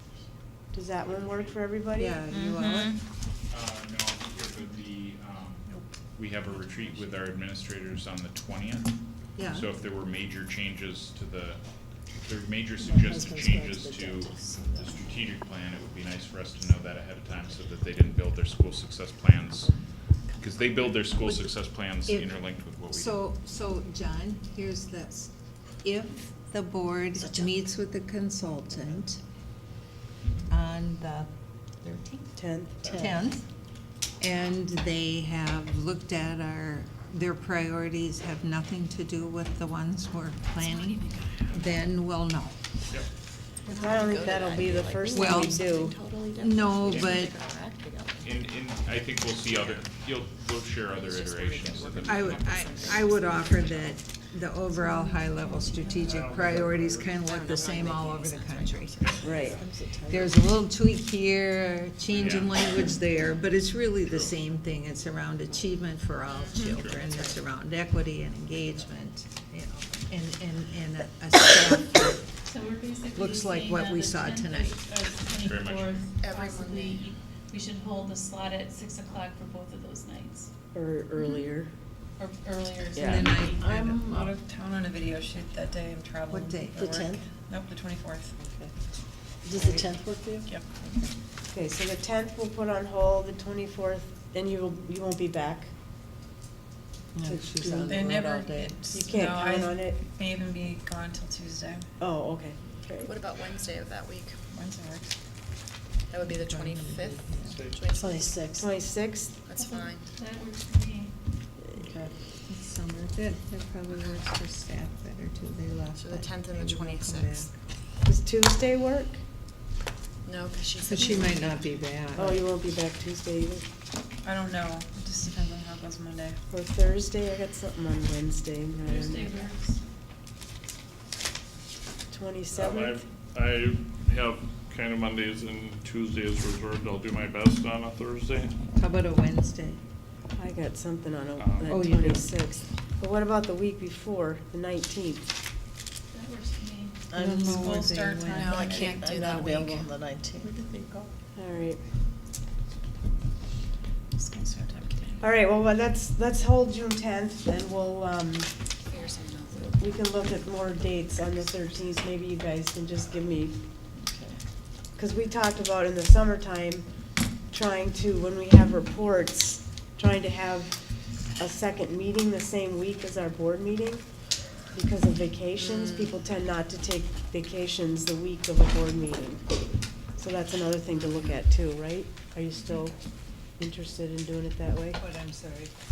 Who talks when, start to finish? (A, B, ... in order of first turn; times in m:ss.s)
0:00.7-0:02.2 A
0:02.0-0:02.9 B
0:03.5-0:19.8 C
0:09.4-0:09.7 B
0:12.8-0:15.1 D
0:20.4-0:23.2 C
0:21.2-0:21.5 B
0:22.0-0:22.4 B
0:22.9-0:25.3 B
0:25.8-0:29.2 B
0:27.2-0:27.5 D
0:30.2-0:30.5 C
0:30.5-0:31.3 B
0:31.8-0:32.2 B
0:32.3-0:32.8 A
0:32.8-0:33.2 E
0:32.8-0:33.1 D
0:32.9-0:33.4 B
0:34.2-0:42.6 B
0:40.6-0:41.8 F
0:43.7-0:46.0 A
0:43.7-0:48.5 G
0:45.1-0:45.7 B
0:46.4-0:47.3 B
0:48.2-0:52.3 C
0:49.4-0:49.8 G
0:50.9-0:54.0 G
0:52.0-0:59.1 B
0:54.8-0:56.2 F
0:56.0-0:57.2 E
0:57.2-0:59.4 G
0:59.0-0:59.6 E
0:59.2-1:00.5 D
0:59.2-0:59.6 A
1:00.1-1:12.3 B
1:02.1-1:02.6 C
1:04.0-1:04.3 C
1:06.3-1:07.4 G
1:06.6-1:07.1 C
1:12.4-1:20.5 F
1:13.1-1:14.8 B
1:15.3-1:16.1 C
1:16.2-1:17.1 G
1:20.7-1:21.7 A
1:22.2-1:23.6 F
1:23.0-1:23.3 A
1:23.0-1:24.0 B
1:23.6-1:24.4 D
1:23.8-1:28.4 H
1:26.3-1:26.9 B
1:26.7-1:27.3 D
1:29.4-1:30.5 D
1:30.4-1:30.7 H
1:30.8-1:31.1 B
1:31.5-1:35.7 A
1:37.2-1:38.8 B
1:37.2-1:38.1 A
1:37.8-1:41.9 H
1:38.9-1:40.0 A
1:42.0-1:43.1 A
1:43.0-1:44.4 G
1:44.5-1:45.1 H
1:46.1-1:48.3 G
1:46.2-1:47.6 B
1:47.4-1:47.8 E
1:47.9-1:48.7 D
1:48.6-1:49.4 A
1:49.4-1:50.1 G
1:49.6-1:51.1 F
1:52.5-1:57.5 B
1:56.0-1:57.5 G
1:58.0-1:59.2 A
2:00.2-2:01.8 G
2:00.8-2:02.4 B
2:02.1-2:03.7 A
2:04.2-2:06.4 H
2:06.5-2:09.5 A
2:08.8-2:09.8 F
2:12.1-2:13.0 A
2:12.5-2:18.6 E
2:18.8-2:19.8 B
2:20.3-2:25.2 A
2:21.4-2:21.8 E
2:21.7-2:22.3 B
2:26.1-2:27.2 F
2:27.1-2:28.5 B
2:27.2-2:29.9 H
2:28.4-2:29.6 G
2:29.0-2:29.8 B
2:29.9-2:30.9 D
2:31.4-2:31.8 A
2:34.2-2:35.1 F
2:34.8-2:35.2 G
2:35.2-2:38.5 A
2:38.9-2:39.9 G
2:39.7-2:43.6 A
2:45.0-2:46.9 A
2:47.5-2:50.8 A
2:51.4-2:54.0 A
2:54.7-2:59.4 A
2:55.6-2:56.0 G
3:00.2-3:03.0 A
3:03.6-3:05.0 A
3:05.0-3:05.7 B